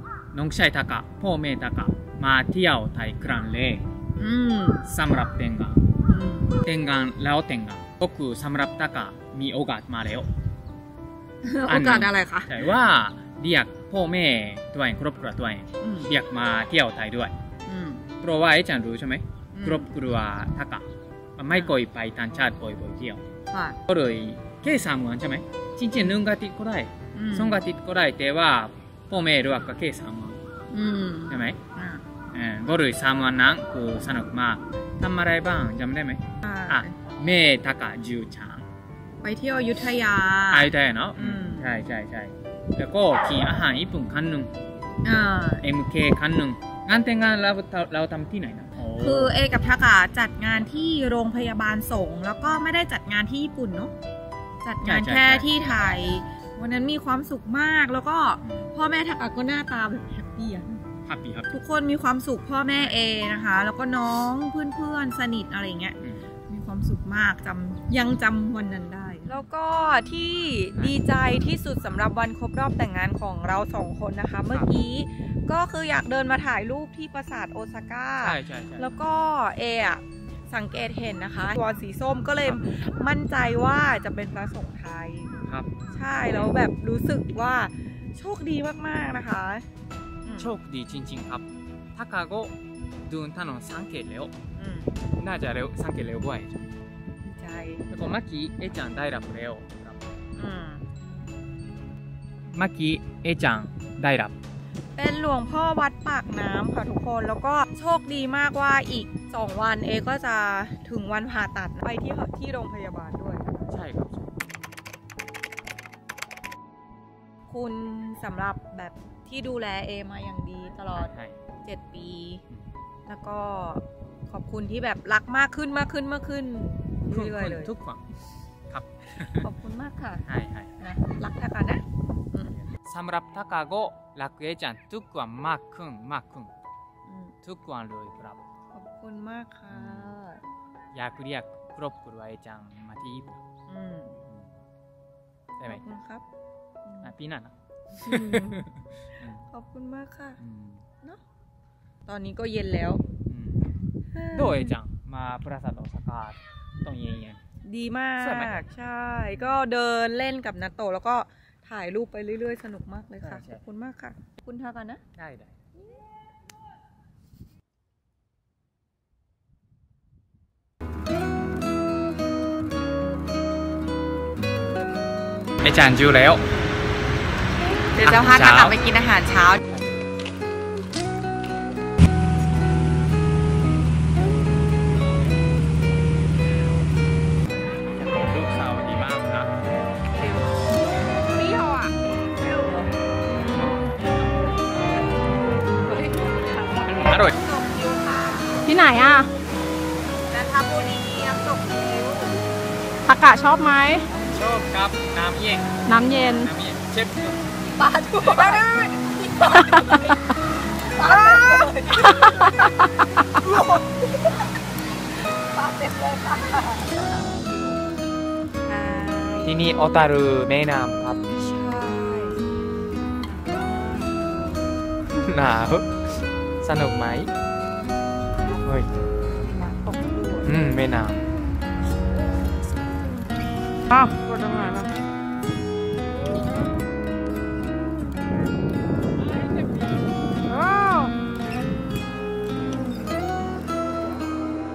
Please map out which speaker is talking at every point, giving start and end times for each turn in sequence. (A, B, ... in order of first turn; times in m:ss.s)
0:00.3-0:03.8 A
0:04.2-0:04.9 B
0:04.9-0:05.9 A
0:06.1-0:06.6 B
0:06.6-0:10.3 A
0:11.4-0:12.5 B
0:11.7-0:17.3 A
0:15.8-0:16.1 B
0:17.6-0:18.0 B
0:18.2-0:20.8 A
0:19.5-0:19.9 B
0:21.4-0:23.2 A
0:23.5-0:23.8 B
0:23.9-0:30.4 A
0:27.1-0:27.6 B
0:30.7-0:32.0 B
0:31.3-0:31.6 A
0:32.3-0:38.6 A
0:36.4-0:36.9 B
0:39.2-0:41.7 B
0:40.5-0:44.5 A
0:45.0-0:45.6 B
0:45.6-0:49.3 A
0:49.0-0:53.9 B
0:54.6-1:00.8 B
0:54.8-0:55.5 A
0:58.4-0:58.7 A
1:01.1-1:01.5 A
1:01.5-1:06.0 B
1:06.5-1:25.3 B
1:18.2-1:18.9 A
1:25.4-1:25.7 A
1:25.9-1:29.6 B
1:30.2-1:30.5 B
1:30.4-1:32.5 A
1:33.1-1:34.3 A
1:34.6-1:34.9 B
1:35.1-1:36.7 A
1:37.2-1:37.8 B
1:37.9-1:40.0 A
1:40.4-1:41.0 B
1:42.5-1:44.3 A
1:45.0-1:53.6 B
1:53.7-1:54.3 A
1:57.5-2:01.1 B
2:00.9-2:01.4 A
2:01.6-2:02.4 B
2:03.0-2:07.7 B
2:07.1-2:08.0 A
2:08.7-2:09.5 A
2:09.4-2:10.2 B
2:10.2-2:10.7 A
2:10.8-2:12.5 B
2:12.5-2:16.5 A
2:17.0-2:17.3 B
2:17.4-2:18.4 A
2:18.7-2:20.4 B
2:19.7-2:20.1 A
2:20.9-2:23.4 A
2:23.7-2:24.2 B
2:24.3-2:24.6 A
2:25.6-2:26.2 B
2:26.8-2:27.1 B
2:27.0-2:29.5 A
2:28.0-2:28.6 B
2:29.5-2:30.4 B
2:30.4-2:30.8 A
2:32.0-2:33.0 B
2:33.3-2:33.7 A
2:34.1-2:34.8 B
2:34.3-2:37.4 A
2:37.6-2:45.0 B
2:38.2-2:38.6 A
2:43.2-2:43.6 A
2:45.2-2:45.5 A
2:55.6-2:56.4 A
2:57.8-2:59.6 B
2:58.0-2:58.8 A
3:07.9-3:09.5 A
3:11.3-3:12.8 B
3:15.8-3:18.7 B
3:16.9-3:17.4 A
3:18.6-3:19.3 C
3:20.3-3:22.4 B
3:23.0-3:24.1 C
3:24.2-3:27.4 A
3:25.9-3:26.5 C
3:27.7-3:30.1 B
3:30.9-3:32.7 B
3:33.3-3:34.3 B
3:35.3-3:37.5 B
3:38.6-3:39.6 B
3:39.4-3:41.2 A
3:41.3-3:42.4 B
3:43.2-3:44.6 B
3:45.2-3:47.3 A
3:48.6-3:48.9 A
3:49.5-3:50.5 B
3:50.4-3:51.2 A
3:53.9-3:54.9 C
4:00.5-4:01.1 C